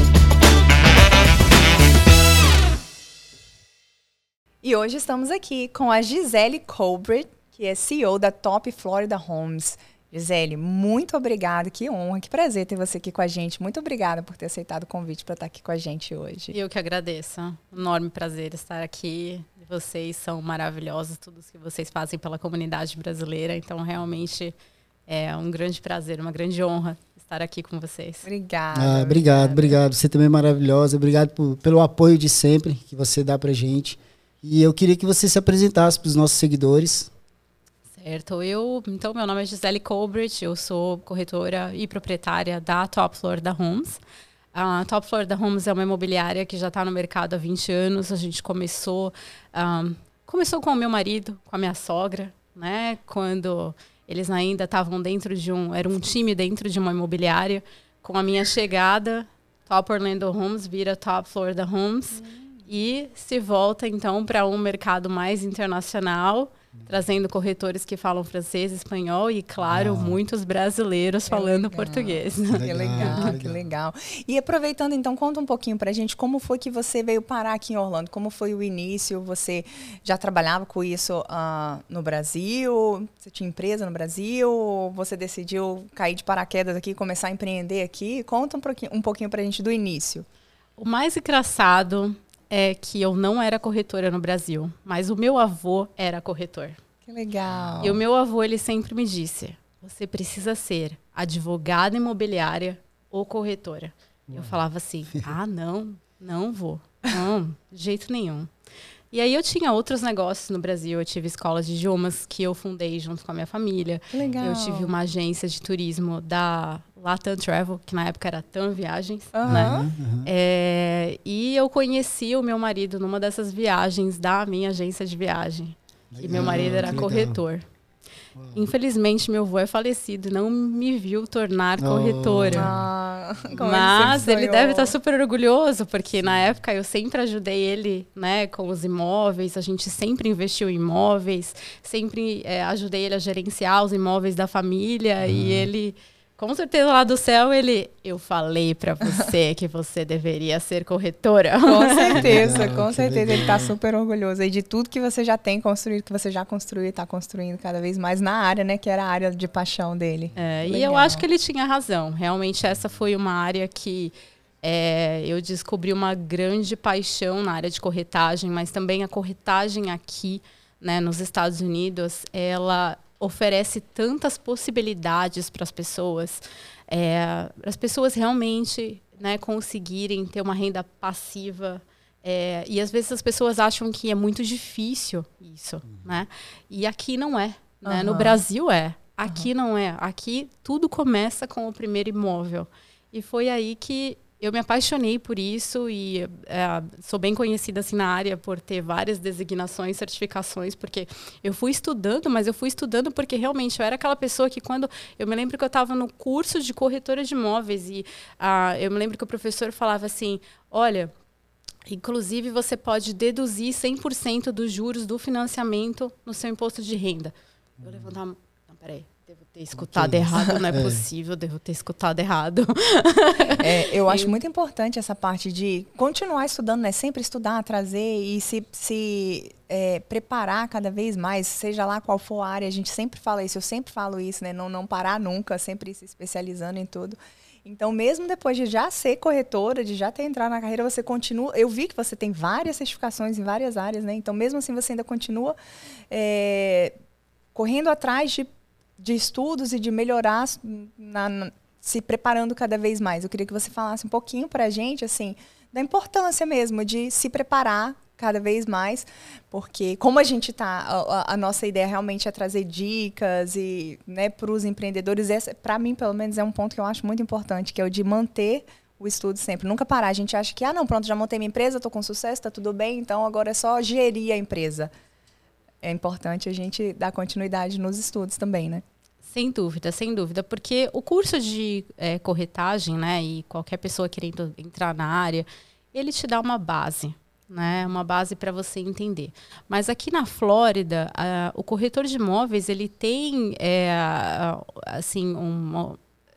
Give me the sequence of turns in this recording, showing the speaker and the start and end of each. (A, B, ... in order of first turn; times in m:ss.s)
0:04.6-0:16.6 A
0:16.5-0:24.5 B
0:25.1-0:28.2 B
0:28.2-0:29.7 A
0:28.7-0:37.1 C
0:38.0-0:44.0 B
0:44.5-1:13.3 B
1:02.1-1:02.7 A
1:09.7-1:10.2 C
1:11.3-1:30.2 A
1:12.5-1:13.7 C
1:30.8-1:36.8 B
1:37.0-1:38.0 A
1:37.5-1:37.8 C
1:37.8-1:48.5 B
1:44.3-1:44.6 C
1:49.1-2:07.6 B
1:54.1-1:54.9 A
1:59.3-1:59.9 A
1:59.4-2:00.3 C
2:06.1-2:07.4 C
2:08.4-2:08.7 C
2:08.5-2:12.7 B
2:11.8-2:12.8 C
2:12.5-2:14.9 A
2:13.6-2:32.4 B
2:25.2-2:25.7 C
2:31.7-2:41.2 A
2:32.2-2:33.7 C
2:40.3-3:31.1 B
3:07.8-3:08.4 A
3:31.8-3:44.3 B
3:37.8-3:38.1 C
3:39.8-3:41.0 C
3:43.6-4:05.6 A
4:06.1-4:06.9 A
4:07.6-4:34.9 A
4:35.8-4:38.8 A
4:39.3-4:56.0 B